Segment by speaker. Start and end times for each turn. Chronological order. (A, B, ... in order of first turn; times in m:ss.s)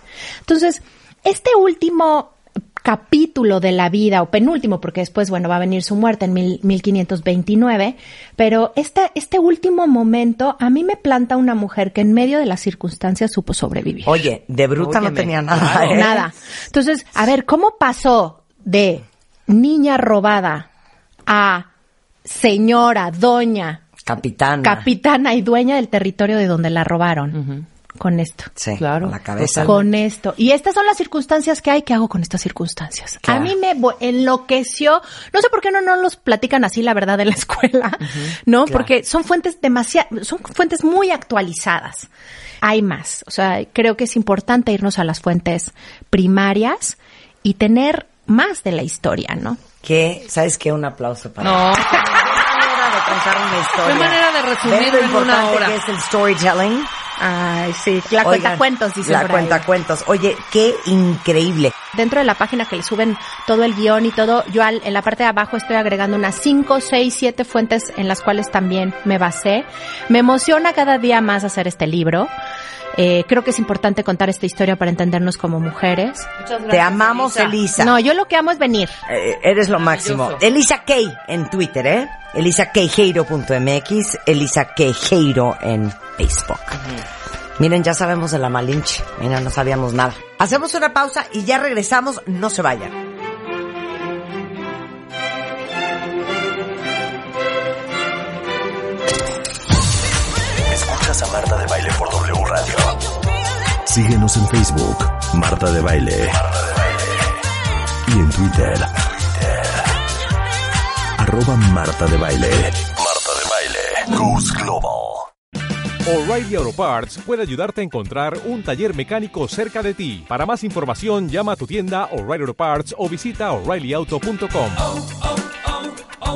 0:00.5-0:14.2 A
0:14.0-0:16.2 B
0:14.8-0:16.2 C
0:15.9-0:20.7 A
0:21.3-0:21.7 A
0:22.2-0:23.8 A
0:24.0-0:24.9 B
0:24.6-0:27.4 A
0:28.0-0:28.5 A
0:28.6-0:29.8 B
0:28.8-0:29.7 C
0:29.6-0:42.1 A
0:33.2-0:33.5 B
0:42.6-0:49.6 A
0:49.8-0:56.9 B
0:51.4-0:52.1 C
0:53.8-0:55.8 C
0:57.2-0:59.6 A
0:58.2-1:01.7 B
1:01.9-1:12.3 A
1:12.9-1:16.3 A
1:16.4-1:17.6 C
1:16.7-1:17.9 B
1:17.8-1:19.0 A
1:19.1-1:26.8 B
1:19.8-1:20.4 C
1:27.6-1:33.0 B
1:40.7-1:43.0 D
1:43.9-1:47.3 D
1:48.1-1:49.9 D
1:51.2-1:55.3 D
1:56.1-2:05.0 E